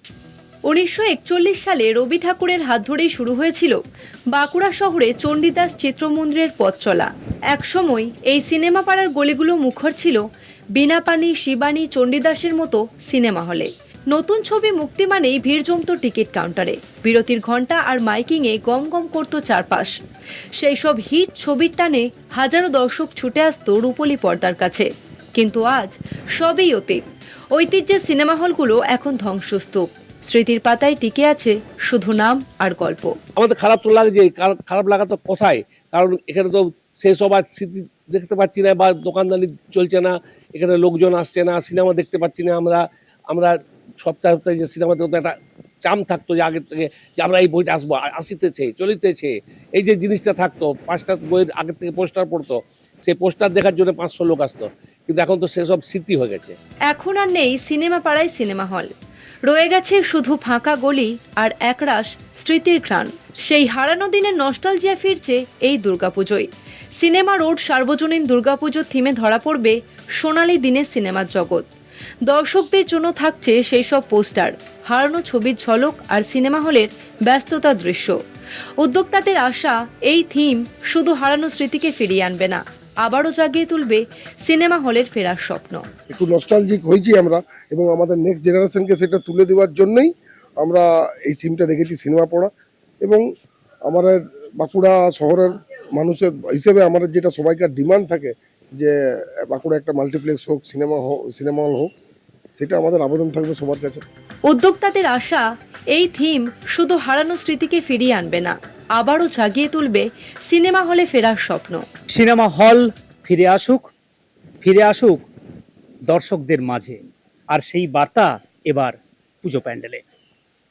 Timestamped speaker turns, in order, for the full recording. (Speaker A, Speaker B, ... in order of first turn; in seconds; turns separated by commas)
Speaker A: 0.7-3.8, Speaker A: 4.3-10.2, Speaker A: 10.8-20.0, Speaker A: 20.6-33.1, Speaker B: 33.4-56.6, Speaker A: 56.9-58.9, Speaker A: 59.5-71.7, Speaker A: 72.2-78.2, Speaker A: 78.8-85.8, Speaker C: 86.1-92.5, Speaker C: 93.9-99.0, Speaker C: 99.5-101.9, Speaker C: 102.6-104.0, Speaker A: 104.5-111.8, Speaker D: 112.1-113.9, Speaker D: 114.6-115.3, Speaker D: 116.1-117.0, Speaker D: 117.5-120.0